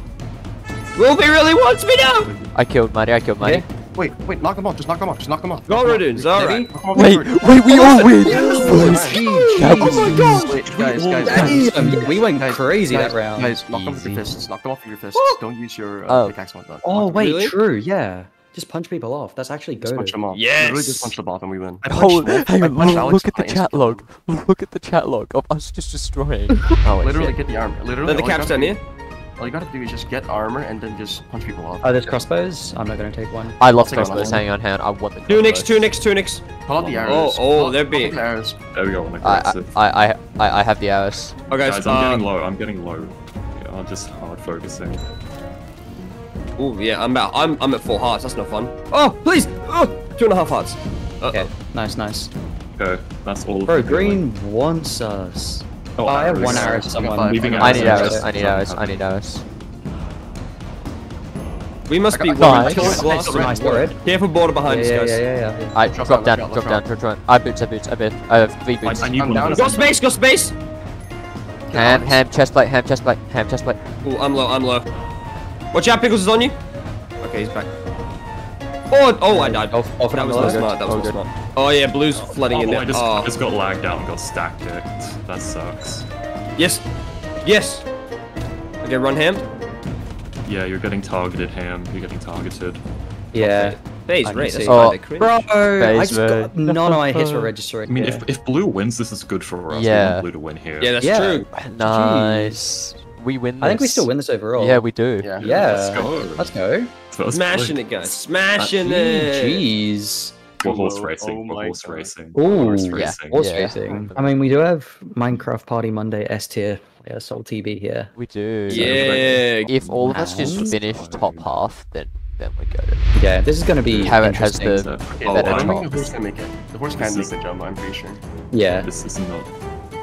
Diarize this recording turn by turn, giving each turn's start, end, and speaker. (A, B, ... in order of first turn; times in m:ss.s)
0:01.0-0:02.3 A
0:02.2-0:02.5 B
0:02.5-0:03.6 C
0:04.0-0:17.2 D
0:05.7-0:06.7 A
0:06.4-0:06.7 E
0:06.9-0:10.2 C
0:08.2-0:10.6 A
0:08.2-0:10.6 E
0:10.6-0:11.8 B
0:11.3-0:14.3 E
0:16.1-0:16.4 C
0:16.8-0:20.2 E
0:17.2-0:17.5 A
0:19.8-0:24.1 D
0:20.3-0:21.1 A
0:21.9-0:27.4 C
0:26.8-0:28.8 D
0:28.0-0:28.8 A
0:29.4-0:32.0 D
0:31.8-0:34.4 E
0:33.6-0:35.9 C
0:33.7-0:34.4 D
0:35.3-0:38.2 A
0:36.7-0:38.6 D
0:36.8-0:37.2 B
0:38.7-0:39.8 B
0:39.2-0:41.4 C
0:41.5-0:42.2 A
0:41.6-0:45.0 B
0:46.6-0:51.5 A
0:51.3-0:52.3 E
0:52.8-0:54.3 B
0:53.7-0:58.2 E
0:56.0-0:59.0 B
0:56.3-0:58.2 D
0:57.6-0:59.4 C
1:01.9-1:05.2 A
1:02.1-1:04.0 D
1:02.4-1:02.9 C
1:02.4-1:04.0 E
1:02.7-1:03.3 B
1:04.6-1:05.8 E
1:05.8-1:09.2 C
1:05.9-1:06.8 D
1:08.8-1:09.9 B
1:09.0-1:09.9 D
1:09.5-1:10.5 A
1:11.7-1:12.2 D
1:11.7-1:13.8 C
1:14.0-1:14.9 A
1:15.7-1:16.6 A
1:17.2-1:17.7 A
1:18.9-1:23.3 A
1:19.3-1:21.2 E
1:20.4-1:21.2 C
1:22.5-1:26.1 B
1:26.6-1:26.8 A
1:27.4-1:27.8 A
1:28.8-1:29.4 A
1:30.4-1:32.8 B
1:33.3-1:38.2 E
1:33.4-1:35.5 A
1:34.7-1:35.0 C
1:35.8-1:37.5 C
1:37.9-1:40.9 B
1:39.7-1:40.2 C
1:40.8-1:41.5 A
1:41.0-1:43.0 E
1:41.6-1:42.6 C
1:43.2-1:45.3 C
1:43.6-1:44.8 E
1:45.2-1:45.8 D
1:45.4-1:46.5 B
1:45.4-1:46.9 E
1:47.1-1:48.9 B
1:47.3-1:49.7 A
1:48.9-1:50.4 E
1:50.6-1:52.2 D
1:50.6-1:53.6 B
1:52.3-1:58.1 E
1:52.9-1:54.5 C
1:58.2-2:03.1 C
1:58.7-1:59.7 A
1:58.7-2:01.6 B
2:00.1-2:00.7 E
2:03.2-2:04.9 E
2:03.8-2:06.1 B
2:04.0-2:06.1 C
2:05.1-2:08.2 D
2:07.0-2:07.3 B
2:08.5-2:08.9 E
2:08.8-2:09.5 B